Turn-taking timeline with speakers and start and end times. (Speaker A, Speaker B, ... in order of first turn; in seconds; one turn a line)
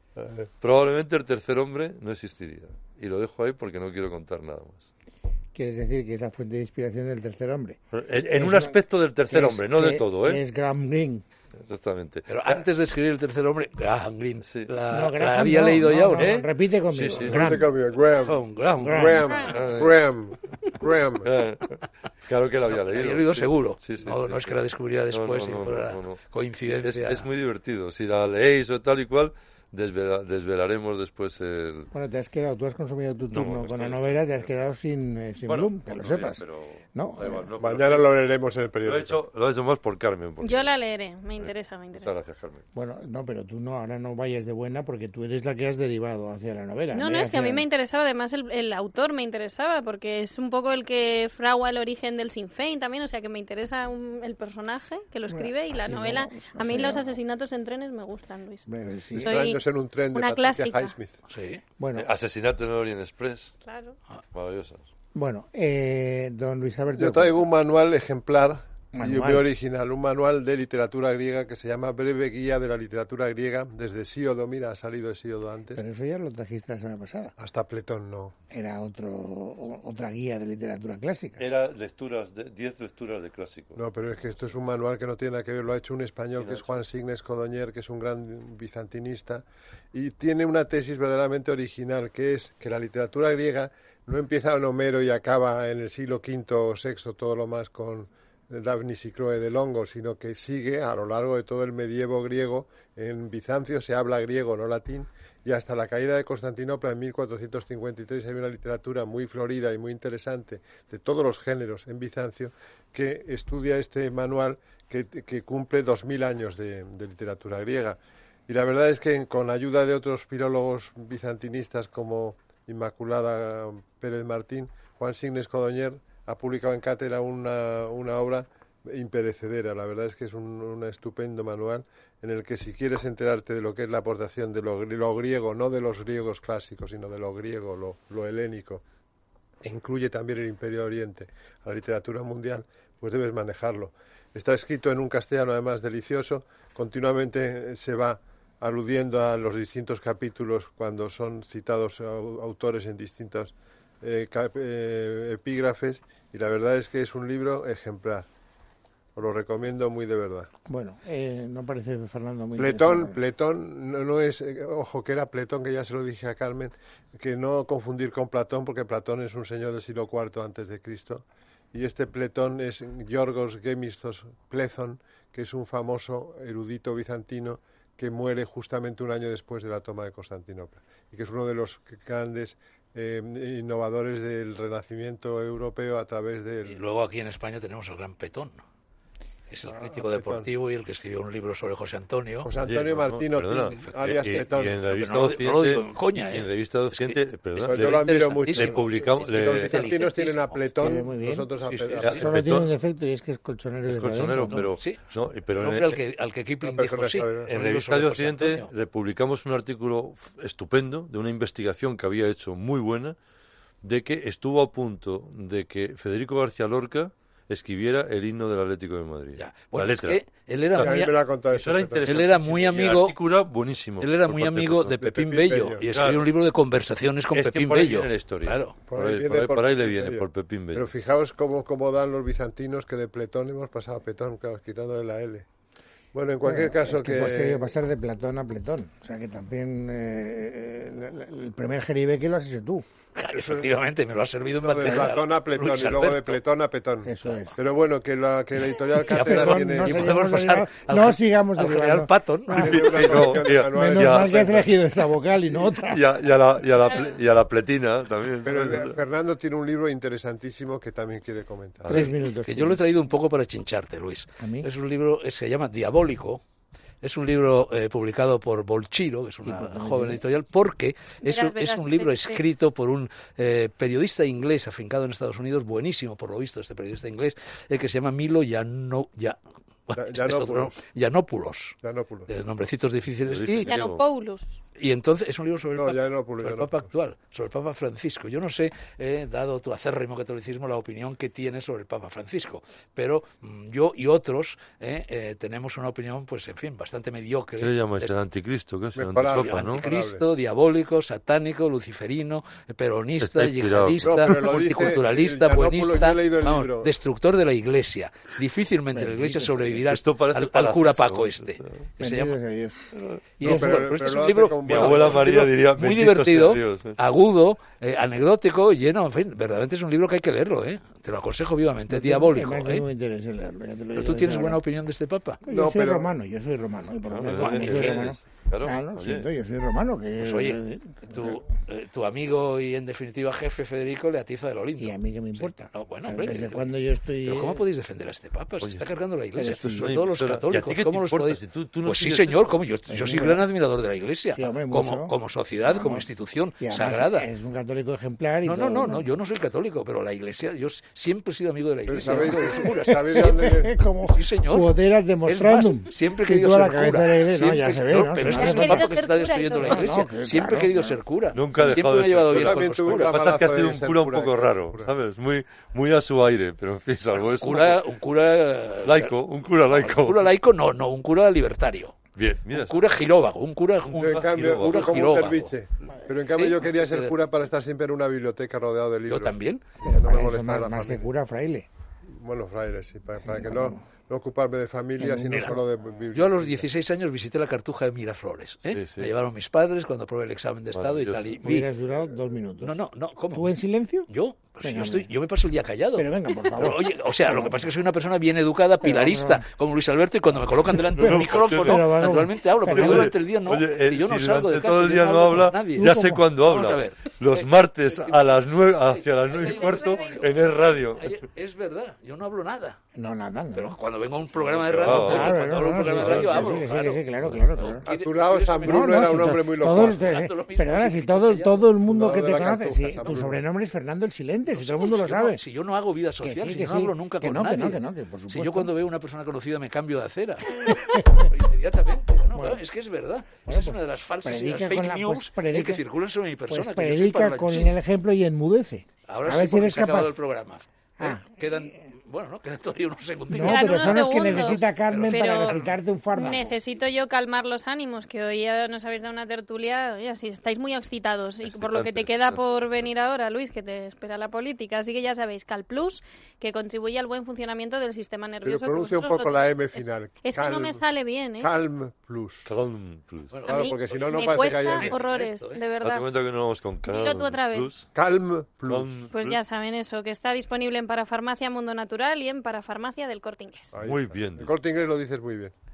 Speaker A: 0.6-4.9
Speaker B: 5.5-7.8
Speaker A: 7.9-10.4
Speaker B: 8.3-8.8
Speaker B: 9.3-11.2
Speaker A: 11.6-12.6
Speaker C: 12.3-16.3
Speaker A: 14.4-14.7
Speaker B: 14.9-17.7
Speaker A: 16.1-17.6
Speaker D: 17.1-21.3
Speaker C: 18.2-19.2
Speaker B: 18.8-19.4
Speaker A: 19.4-20.0
Speaker A: 21.2-24.5
Speaker C: 22.7-27.3
Speaker A: 25.1-26.2
Speaker A: 26.8-31.9
Speaker B: 31.9-36.4
Speaker A: 33.3-34.4
Speaker A: 35.5-38.2
Speaker B: 36.9-37.5
Speaker D: 37.6-39.1
Speaker A: 38.8-40.7
Speaker E: 40.4-42.1
Speaker A: 41.4-42.6
Speaker B: 42.7-47.7
Speaker E: 46.9-58.6
Speaker B: 55.3-57.2
Speaker B: 58.7-59.4
Speaker D: 59.2-61.1
Speaker E: 59.2-60.9
Speaker C: 61.3-61.6
Speaker B: 61.8-62.1
Speaker A: 62.0-63.5
Speaker E: 63.6-64.0
Speaker A: 64.3-64.9
Speaker B: 65.1-67.5
Speaker D: 67.0-75.8
Speaker B: 68.9-69.5
Speaker B: 75.7-77.3
Speaker D: 77.4-78.3
Speaker B: 78.5-81.4
Speaker A: 81.4-83.8
Speaker D: 83.8-138.8
Speaker A: 86.4-86.8
Speaker D: 139.6-158.3
Speaker D: 159.2-160.5
Speaker B: 160.7-163.2
Speaker D: 162.6-186.8
Speaker C: 186.7-188.6
Speaker C: 189.5-192.5
Speaker D: 189.7-190.5
Speaker D: 192.4-194.8
Speaker A: 192.6-199.8
Speaker C: 194.0-194.3
Speaker C: 194.8-201.1
Speaker D: 197.6-202.4
Speaker B: 200.8-201.5
Speaker C: 201.7-202.2
Speaker A: 202.0-202.7
Speaker B: 202.1-204.6
Speaker A: 203.9-206.0
Speaker C: 204.5-205.0
Speaker C: 205.5-208.7
Speaker D: 206.6-207.5
Speaker A: 207.4-213.2
Speaker A: 213.8-220.2
Speaker C: 219.4-221.2
Speaker A: 220.8-224.9
Speaker D: 220.8-222.1
Speaker C: 222.1-223.2
Speaker C: 224.0-228.8
Speaker D: 225.0-225.8
Speaker A: 225.9-226.2
Speaker A: 227.3-230.9
Speaker D: 228.9-235.4
Speaker D: 236.1-237.7
Speaker B: 236.4-242.8
Speaker C: 243.1-246.4
Speaker D: 243.3-243.7
Speaker D: 244.6-250.2
Speaker B: 247.0-247.6
Speaker B: 249.0-256.0
Speaker C: 249.1-253.1
Speaker A: 252.6-254.6
Speaker D: 252.6-254.6
Speaker A: 255.7-259.0
Speaker D: 258.4-261.9
Speaker B: 261.9-262.8
Speaker C: 261.9-266.4
Speaker B: 264.4-264.7
Speaker C: 267.0-281.8
Speaker B: 269.4-270.2
Speaker E: 271.2-272.4
Speaker D: 279.9-280.8
Speaker D: 281.8-282.3
Speaker C: 282.3-283.7
Speaker A: 283.3-284.0
Speaker E: 283.7-284.6
Speaker C: 284.8-298.1
Speaker D: 285.8-286.9
Speaker A: 297.6-299.8
Speaker D: 298.9-300.2
Speaker C: 299.4-312.4
Speaker A: 303.2-304.5
Speaker D: 304.0-306.9
Speaker B: 308.9-309.8
Speaker A: 309.9-311.9
Speaker B: 312.0-312.8
Speaker A: 312.9-313.2
Speaker C: 313.4-322.8
Speaker B: 313.4-313.9
Speaker D: 313.4-315.2
Speaker A: 314.6-317.0
Speaker B: 321.9-324.6
Speaker C: 323.9-325.4
Speaker B: 325.4-331.4
Speaker D: 325.5-326.1
Speaker A: 327.1-329.3
Speaker C: 327.3-327.9
Speaker C: 330.2-336.7
Speaker B: 334.8-337.6
Speaker C: 337.2-347.3
Speaker A: 338.6-338.9
Speaker B: 339.4-339.9
Speaker A: 339.6-342.6
Speaker B: 342.9-343.4
Speaker B: 344.3-346.1
Speaker B: 346.6-349.1
Speaker C: 348.4-354.7
Speaker D: 351.9-353.7
Speaker B: 352.0-358.9
Speaker C: 355.2-363.3
Speaker E: 358.3-360.0
Speaker B: 359.6-361.0
Speaker A: 361.3-367.8
Speaker D: 362.3-364.9
Speaker C: 367.2-369.1
Speaker A: 368.8-370.2
Speaker C: 369.7-372.0
Speaker A: 372.1-372.8
Speaker C: 372.5-375.5
Speaker A: 373.9-375.4
Speaker D: 374.0-381.0
Speaker C: 376.3-377.1
Speaker C: 379.1-379.6
Speaker B: 379.8-381.7
Speaker D: 382.1-386.7
Speaker B: 383.2-383.8
Speaker B: 385.0-385.7
Speaker C: 386.1-391.7
Speaker A: 388.6-389.1
Speaker A: 390.7-391.3
Speaker B: 391.4-392.8
Speaker C: 392.6-393.5
Speaker B: 393.3-394.1
Speaker C: 394.1-410.3
Speaker B: 394.6-395.1
Speaker B: 395.9-397.6
Speaker B: 398.8-399.4
Speaker B: 400.5-403.1
Speaker A: 400.9-402.0
Speaker A: 402.6-411.1
Speaker B: 405.7-406.3
Speaker E: 409.5-410.2
Speaker C: 410.9-412.8
Speaker B: 412.9-413.8
Speaker C: 413.5-417.0
Speaker A: 414.4-416.6
Speaker B: 414.8-417.8
Speaker A: 417.2-417.7
Speaker C: 417.6-421.7
Speaker D: 417.8-420.0
Speaker B: 418.6-425.4
Speaker D: 421.8-423.4
Speaker C: 424.5-437.7
Speaker B: 426.2-428.7
Speaker B: 430.6-431.3
Speaker B: 432.3-432.6
Speaker B: 433.4-435.8
Speaker B: 436.5-440.2
Speaker C: 439.1-445.7
Speaker B: 441.0-441.7
Speaker B: 443.3-446.6
Speaker E: 443.3-445.6
Speaker E: 446.1-461.5
Speaker A: 451.4-452.4
Speaker D: 458.4-460.8
Speaker D: 461.4-462.5
Speaker A: 462.4-463.3
Speaker C: 463.3-465.6
Speaker E: 463.5-466.1
Speaker D: 463.5-465.0
Speaker A: 465.8-467.9
Speaker E: 466.8-467.7
Speaker D: 467.9-468.9
Speaker A: 468.7-469.4
Speaker E: 469.1-473.7
Speaker D: 473.7-475.5
Speaker A: 473.8-474.5